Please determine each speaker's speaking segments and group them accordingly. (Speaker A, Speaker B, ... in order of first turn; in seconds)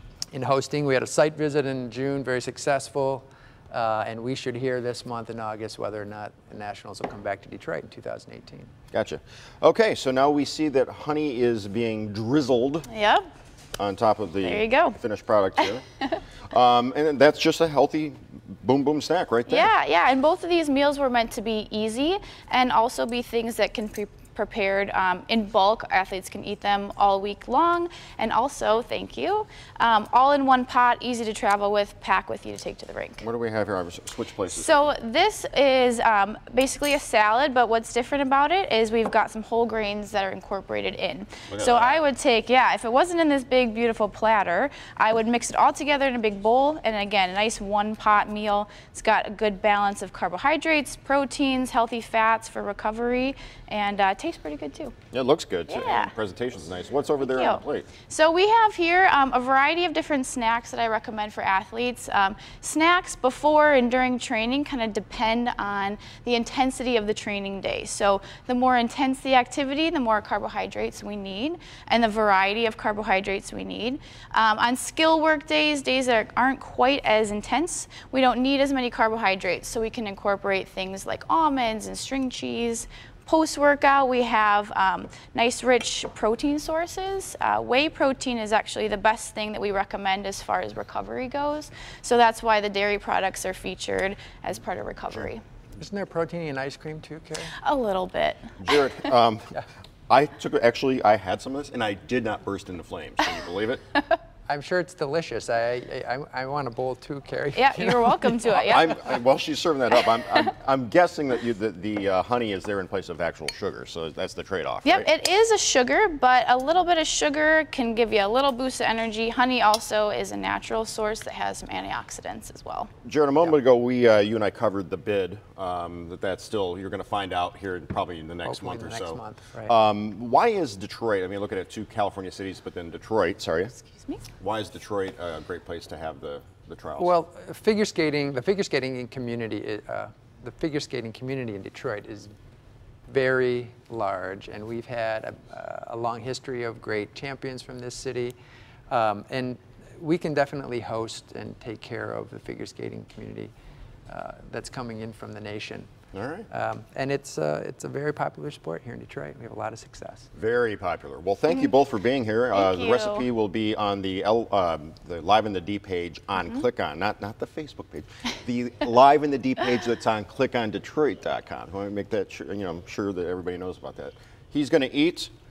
Speaker A: 0.3-8.7, 95.8-97.5, 104.5-108.7, 128.4-129.7, 137.0-142.3, 143.1-148.3, 148.9-153.5, 154.1-155.9, 156.5-160.3
Speaker B: 8.9-12.9, 13.8-15.8, 16.5-19.7, 33.2-34.9, 41.5-42.0, 55.1-57.9, 98.6-99.5, 100.1-103.8, 108.5-115.1, 123.0-133.7, 134.4-137.1, 156.1-156.5, 160.3-175.3
Speaker C: 12.9-13.2, 14.4-14.9, 19.5-33.2, 34.5-54.9, 55.7-56.1, 57.2-95.4, 97.6-99.1, 107.5-109.0, 114.8-122.9, 133.8-134.2, 162.5-163.2